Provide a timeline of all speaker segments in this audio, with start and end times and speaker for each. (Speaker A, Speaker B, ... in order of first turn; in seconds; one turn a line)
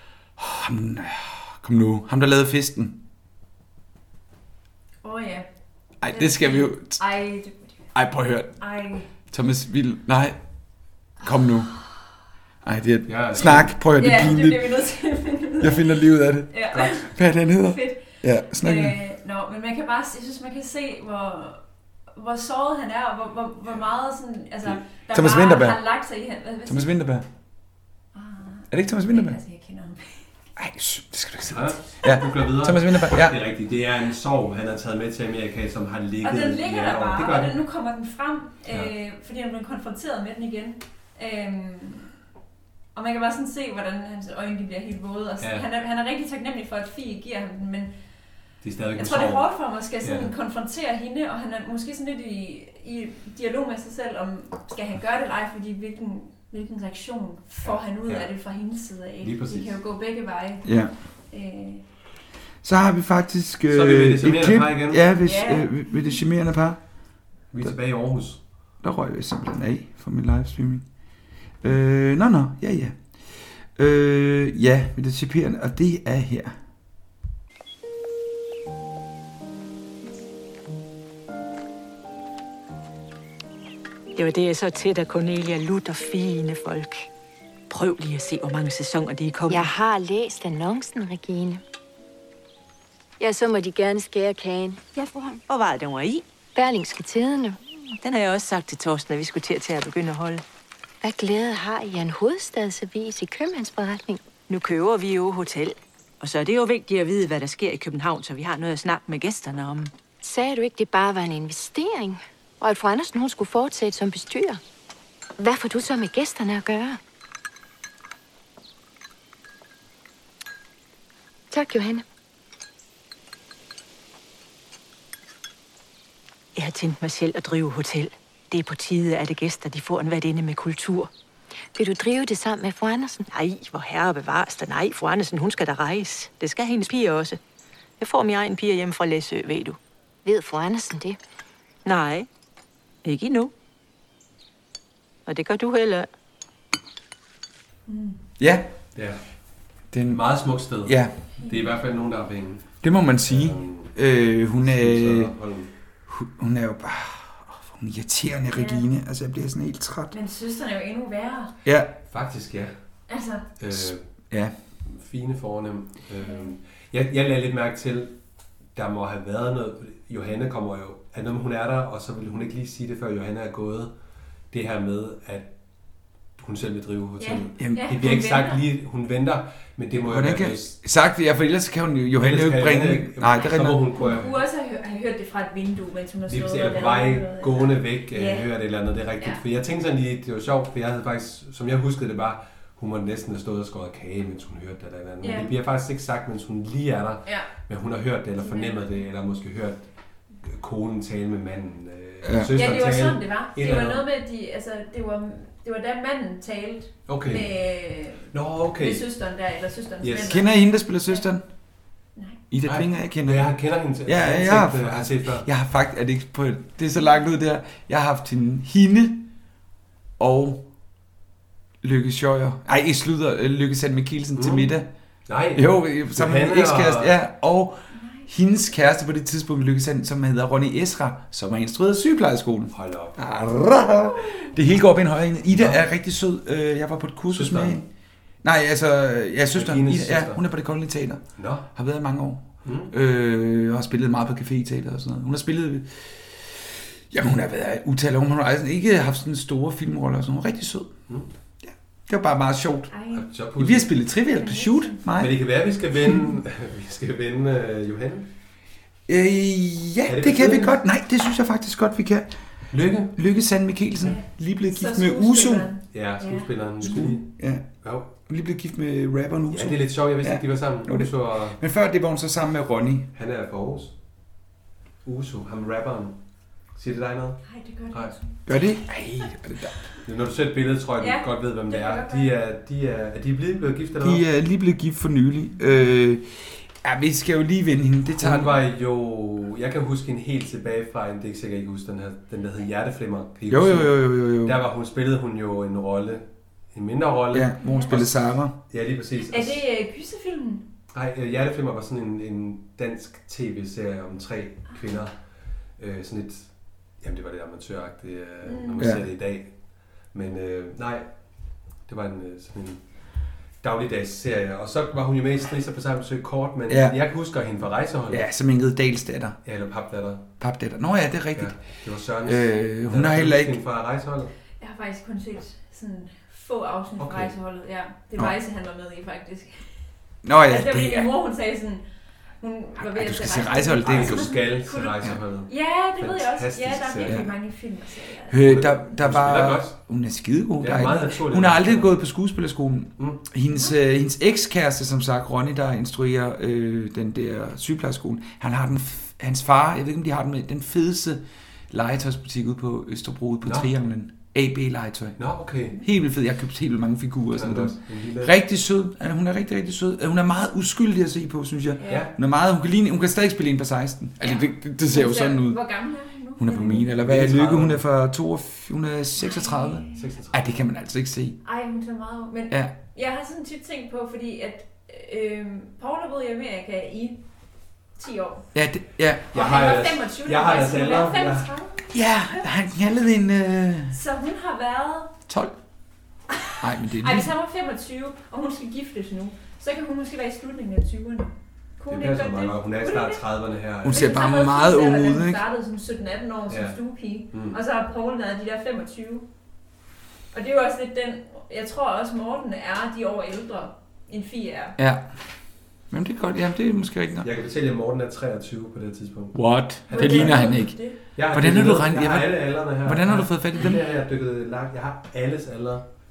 Speaker A: 0.4-3.0
Speaker B: 5.0-5.5
Speaker A: 6.0-7.0
Speaker B: 6.1-7.8
Speaker A: 7.9-8.6
Speaker B: 8.6-9.1
Speaker A: 9.3-10.4
Speaker A: 11.2-11.7
Speaker A: 12.6-14.8
Speaker C: 13.1-13.7
Speaker B: 13.4-17.1
Speaker A: 15.6-19.0
Speaker B: 17.6-21.6
Speaker B: 22.1-26.9
Speaker A: 25.1-25.8
Speaker A: 26.6-27.2
Speaker B: 28.1-30.2
Speaker A: 28.7-29.4
Speaker A: 30.6-33.4
Speaker C: 31.5-37.6
Speaker B: 36.2-42.1
Speaker B: 42.9-47.9
Speaker C: 48.6-49.5
Speaker B: 49.0-60.7
Speaker C: 50.0-50.3
Speaker C: 58.0-58.3
Speaker C: 59.2-59.7
Speaker A: 60.6-60.9
Speaker B: 61.3-61.8
Speaker A: 62.6-66.8
Speaker C: 63.7-65.1
Speaker B: 65.2-66.1
Speaker C: 67.5-68.4
Speaker A: 68.8-70.8
Speaker A: 71.6-73.0
Speaker A: 73.8-76.5
Speaker D: 84.2-87.1
Speaker D: 87.7-89.7
Speaker E: 89.5-91.6
Speaker E: 93.2-94.8
Speaker D: 95.5-96.2
Speaker E: 96.5-97.6
Speaker D: 98.0-100.4
Speaker E: 101.0-104.2
Speaker D: 104.5-109.9
Speaker E: 110.2-114.6
Speaker E: 115.4-117.0
Speaker E: 121.5-122.0
Speaker D: 126.5-131.1
Speaker E: 131.7-133.2
Speaker D: 133.3-137.4
Speaker D: 138.0-139.8
Speaker E: 140.2-141.2
Speaker D: 141.8-142.3
Speaker D: 143.0-143.5
Speaker D: 145.3-146.1
Speaker B: 147.9-148.2
Speaker A: 148.4-148.7
Speaker C: 148.9-149.2
Speaker A: 149.9-150.2
Speaker C: 150.1-153.9
Speaker A: 150.8-151.1
Speaker A: 152.8-155.3
Speaker C: 154.6-155.7
Speaker A: 156.1-160.1
Speaker B: 158.5-158.8
Speaker B: 160.1-161.5
Speaker A: 161.6-161.9
Speaker C: 162.1-162.7
Speaker B: 163.1-163.5
Speaker C: 163.6-164.0
Speaker A: 163.7-164.5
Speaker C: 164.9-168.1
Speaker B: 166.2-166.5
Speaker C: 168.7-173.9
Speaker C: 174.5-175.5
Speaker C: 176.4-180.7
Speaker B: 177.2-178.6
Speaker A: 179.9-183.8
Speaker C: 182.2-184.4
Speaker B: 184.0-188.5
Speaker C: 186.3-199.8
Speaker B: 195.2-195.5
Speaker B: 198.4-199.0
Speaker C: 200.4-204.0
Speaker A: 202.2-202.5
Speaker B: 202.5-210.5
Speaker C: 207.1-207.5
Speaker C: 208.3-209.1
Speaker C: 210.0-210.4
Speaker A: 210.2-211.4
Speaker A: 212.5-213.5
Speaker C: 212.6-215.4
Speaker A: 214.0-219.3
Speaker A: 220.2-220.6
Speaker A: 221.8-224.9
Speaker C: 224.3-224.7
Speaker C: 225.3-227.2
Speaker A: 225.5-237.8
Speaker B: 227.9-228.3
Speaker C: 232.7-233.2
Speaker C: 235.5-235.8
Speaker C: 237.3-237.8
Speaker A: 238.4-251.0
Speaker C: 239.5-240.4
Speaker C: 241.4-241.7
Speaker C: 242.6-242.9
Speaker A: 251.6-252.9
Speaker B: 252.9-253.3
Speaker C: 253.1-253.9
Speaker A: 253.6-255.4
Speaker B: 254.3-255.0
Speaker C: 255.2-258.3
Speaker A: 259.1-262.3
Speaker C: 260.1-260.8
Speaker C: 262.7-263.1
Speaker A: 263.1-265.7
Speaker B: 264.0-267.1
Speaker C: 265.9-267.3
Speaker A: 266.8-267.6
Speaker C: 267.8-268.1
Speaker A: 268.2-273.1
Speaker C: 269.5-271.6
Speaker C: 273.1-273.9
Speaker C: 275.0-276.1
Speaker C: 276.7-278.1
Speaker B: 277.5-278.6
Speaker A: 278.5-279.8
Speaker C: 280.0-284.2
Speaker B: 281.0-282.3
Speaker A: 284.0-288.6
Speaker C: 288.1-299.6
Speaker A: 293.5-294.6
Speaker A: 297.3-298.6
Speaker B: 297.6-298.0
Speaker B: 299.3-300.6
Speaker C: 300.9-305.1
Speaker C: 305.8-306.5
Speaker C: 307.0-309.5
Speaker B: 308.4-308.8
Speaker A: 308.8-309.0
Speaker C: 310.1-311.1
Speaker C: 311.9-312.8
Speaker C: 313.6-318.2
Speaker A: 316.7-317.0
Speaker A: 318.1-319.4
Speaker C: 319.4-320.2
Speaker A: 320.4-321.5
Speaker C: 321.3-324.3
Speaker A: 322.2-323.6
Speaker B: 324.6-329.7
Speaker C: 327.0-327.3
Speaker A: 330.2-331.1
Speaker B: 330.4-331.8
Speaker B: 332.4-338.4
Speaker A: 332.8-334.3
Speaker C: 333.8-337.2
Speaker A: 337.0-337.3
Speaker A: 338.3-355.2
Speaker C: 338.4-339.7
Speaker C: 340.6-341.9
Speaker C: 353.4-353.7
Speaker C: 355.2-355.8
Speaker A: 355.8-365.6
Speaker C: 357.3-358.3
Speaker B: 361.8-362.1
Speaker C: 361.9-362.1
Speaker B: 364.2-366.8
Speaker A: 366.4-371.4
Speaker C: 366.6-367.8
Speaker B: 369.2-369.9
Speaker C: 369.9-370.6
Speaker B: 371.4-377.2
Speaker B: 378.0-378.4
Speaker A: 378.5-379.3
Speaker C: 379.3-381.5
Speaker B: 379.3-382.4
Speaker A: 381.9-383.9
Speaker B: 383.9-385.1
Speaker A: 385.3-385.5
Speaker B: 386.3-393.2
Speaker A: 386.6-387.3
Speaker C: 391.9-394.0
Speaker A: 393.8-395.4
Speaker B: 393.9-399.2
Speaker C: 396.5-396.8
Speaker C: 397.3-397.6
Speaker B: 400.3-404.8
Speaker A: 404.8-405.1
Speaker A: 405.9-407.3
Speaker C: 407.2-410.5
Speaker A: 409.3-413.8
Speaker B: 409.9-410.9
Speaker C: 411.1-415.8